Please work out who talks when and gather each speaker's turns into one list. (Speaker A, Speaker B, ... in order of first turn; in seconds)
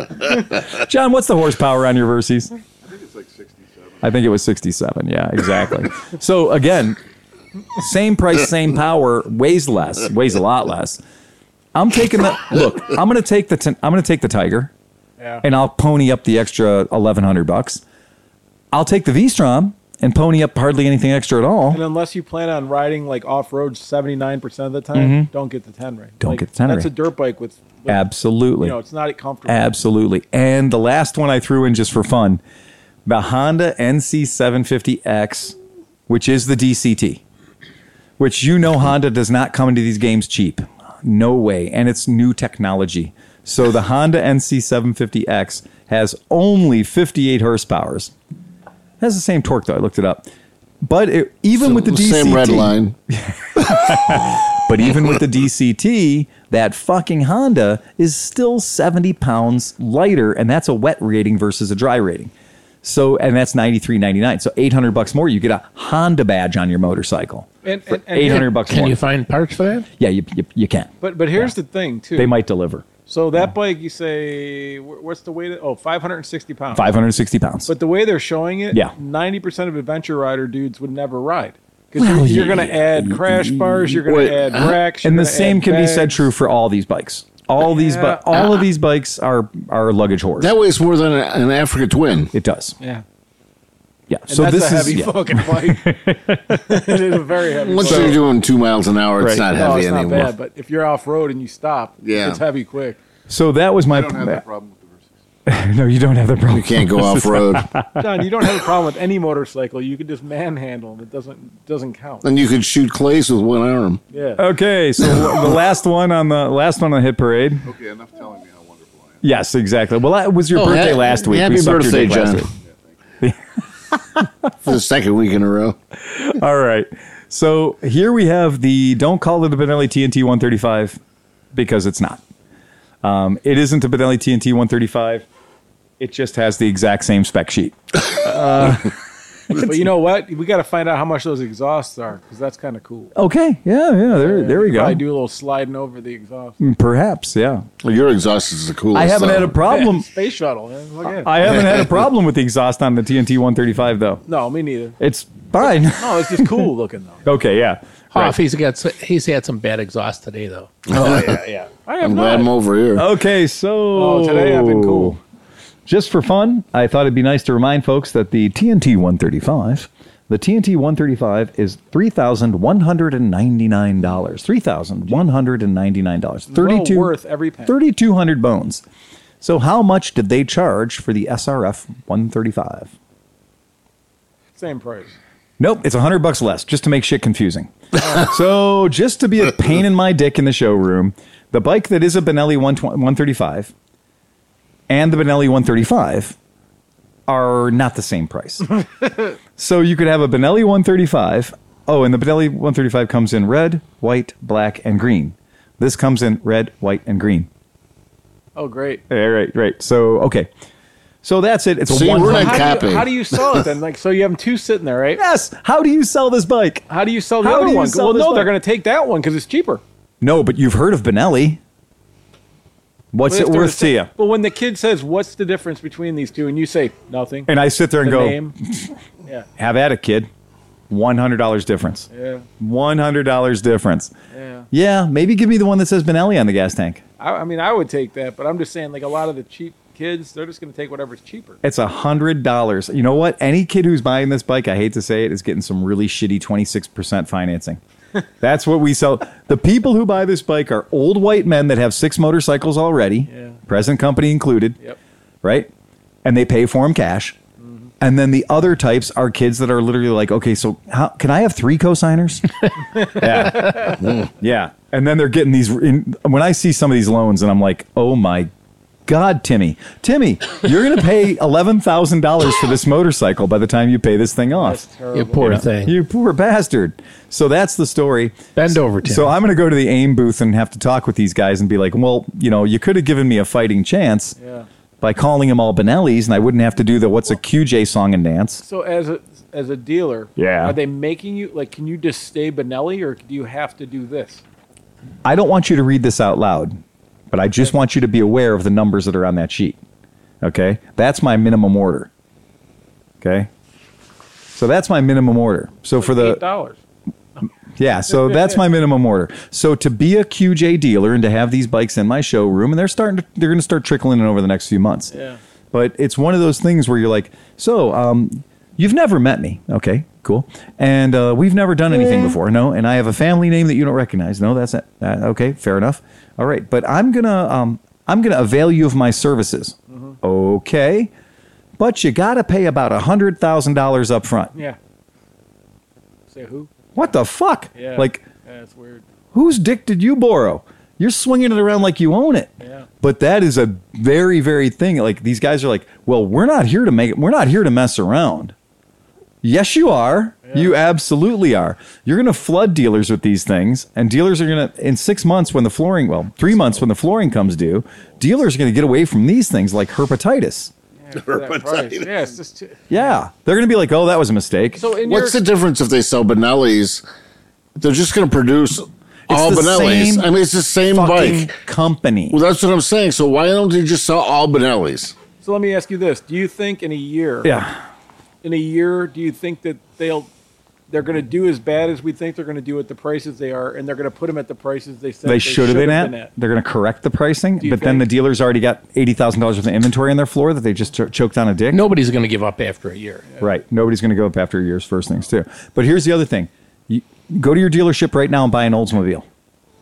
Speaker A: 0.3-2.5, 4.0-7.0, 7.8-11.0, 11.7-14.7, 15.4-17.8, 18.7-21.8, 24.9-25.3, 26.2-26.9, 27.9-28.8, 29.5-32.4, 33.1-35.6, 36.1-37.2, 38.2-48.1, 49.0-50.3, 50.8-62.3, 62.8-69.0, 70.0-71.5, 72.2-72.9, 76.7-77.7, 82.0-84.0, 85.0-90.5, 92.3-92.8, 94.1-97.1, 97.8-98.2, 99.2-99.5, 103.3-104.4, 105.5-108.5, 114.4-117.7, 119.2-122.5, 123.9-124.3, 126.0-131.0, 131.5-132.2, 133.0-135.3, 136.0-138.9, 139.5-139.8, 143.2-145.0, 146.6-147.7, 148.9-150.1, 151.1-154.2, 155.0-156.7, 157.2-158.4, 162.9-165.2, 165.9-177.1, 177.7-178.8, 179.4-182.9, 185.6-193.7, 194.9-196.4, 197.3-198.8, 199.6-207.5, 209.1-210.5, 211.2-213.0, 215.2-216.9, 217.4-218.5, 220.2-221.6, 223.1-224.1, 227.5-228.9, 229.6-230.3, 230.9-232.1, 232.6-234.1, 234.7-237.0, 241.6-247.8, 248.4-254.8, 255.4-255.7, 256.2-257.4, 258.0-268.5, 269.1-274.8, 275.4-284.4, 285.0-288.6, 290.4-290.8, 295.2-296.8, 297.3-299.8, 300.4-302.1, 303.2-303.5, 304.6-306.4, 307.8-315.1, 315.7-331.1, 331.8-334.5, 336.9-338.2, 339.3-348.5, 349.4-360.7, 362.9-364.9, 369.3-370.3, 370.9-372.4, 377.4-377.8, 385.2-391.9, 393.4-399.3
Speaker B: 2.8-4.2, 103.9-105.1, 117.7-119.2, 122.6-123.0
Speaker C: 15.2-15.4, 21.7-28.0, 28.6-29.7, 67.6-68.5, 71.0-72.3, 73.1-76.9, 77.7-86.2, 87.6-88.4, 94.3-96.0, 96.5-98.2, 99.5-103.0, 108.0-112.2, 114.1-114.5, 139.5-143.1, 144.1-146.6, 149.7-151.3, 154.3-155.0, 155.9-157.3, 161.7-162.5, 163.9-165.2, 176.5-177.8, 184.6-185.2, 208.6-209.0, 212.1-215.2, 216.9-219.8, 223.3-227.5, 228.0-228.6, 232.1-232.5, 234.3-234.7, 237.2-241.6, 253.3-253.6, 257.6-257.9, 263.0-264.0, 274.5-275.6, 284.4-284.7, 288.6-294.4, 305.9-306.8, 308.2-308.6, 315.1-315.4, 329.9-330.2, 336.3-336.7, 337.8-339.0, 342.6-342.9, 350.5-350.8, 361.1-363.1, 364.8-365.4, 375.4-377.5, 378.4-380.3, 380.9-386.3, 387.6-388.1
Speaker D: 51.6-53.0, 53.6-54.1, 84.1-84.8, 90.4-92.3, 97.6-100.3, 102.0-102.4, 106.5-107.7, 112.2-114.0, 120.5-122.5, 124.6-125.8, 147.8-149.6, 160.9-161.4, 162.0-163.1, 211.9-213.6, 361.1-362.1, 365.1-367.0, 367.8-371.5, 372.3-375.2
Speaker E: 68.3-69.9, 158.1-160.8, 275.1-276.0, 278.6-279.3, 391.7-393.3